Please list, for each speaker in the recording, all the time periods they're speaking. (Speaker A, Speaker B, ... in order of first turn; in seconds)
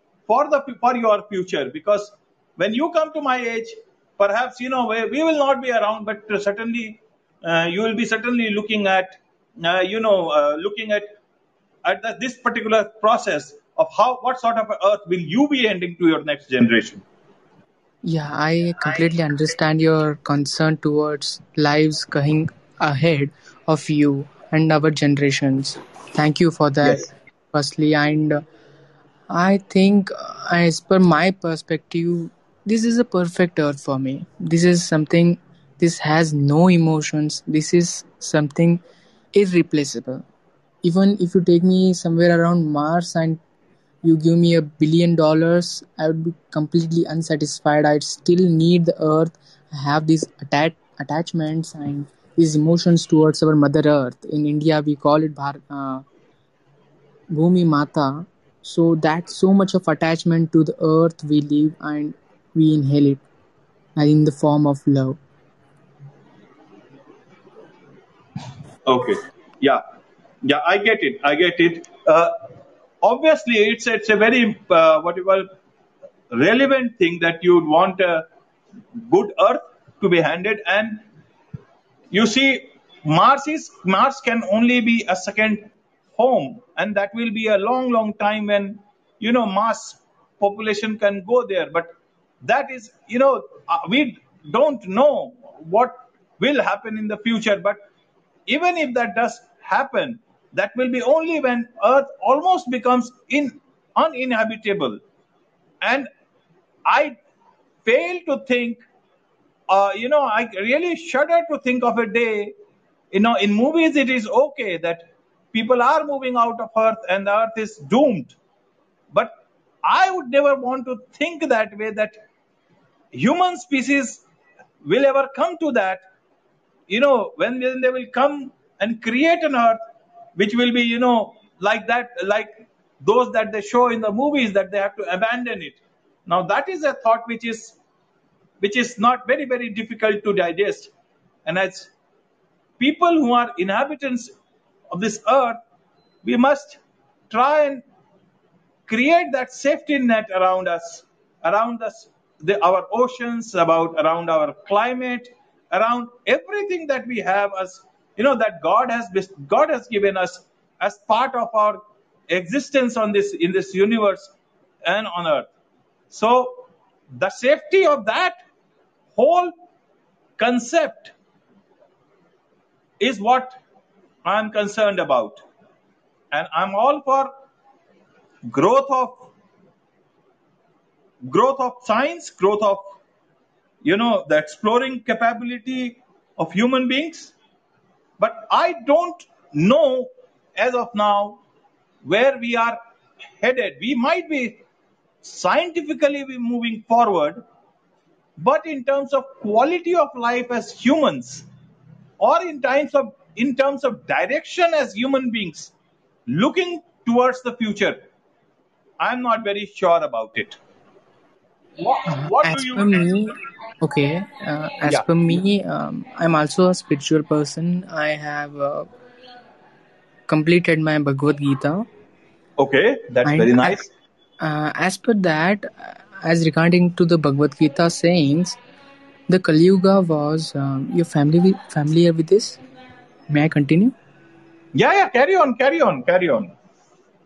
Speaker A: 0.3-11.1, 11.8-17.0, 26.8-27.1, 68.8-69.8, 70.4-72.3, 73.0-75.5, 76.3-78.2, 79.1-81.0, 82.1-91.9, 92.4-97.8, 98.5-105.0, 105.8-106.1, 106.9-107.1, 107.8-108.8, 109.7-112.5, 113.1-118.3, 119.8-122.2, 123.1-124.2, 124.8-126.0, 126.9-129.8, 130.3-137.8, 138.6-140.9, 141.4-141.9, 142.8-144.3, 144.9-145.6, 146.2-147.8, 148.9-164.3, 164.8-165.5, 166.1-166.6, 167.2-168.4, 169.1-169.5, 170.4-171.1, 173.0-173.6, 174.2-175.4, 176.3-177.3, 178.5-179.3, 181.3-182.8, 183.8-187.3, 188.2-191.4, 192.0-192.8, 193.4-194.6, 195.2-197.4, 198.4-201.5, 202.2-205.7, 206.3-208.0, 209.0-210.6, 211.8-213.1, 222.6-223.9, 234.7-236.5
Speaker B: 18.0-28.4, 29.3-38.8, 39.3-40.2, 40.8-43.4, 44.0-56.0, 57.3-63.2, 64.0-65.2, 212.1-218.9, 220.3-221.8, 223.2-223.8, 224.4-228.6, 229.3-232.6, 233.3-233.9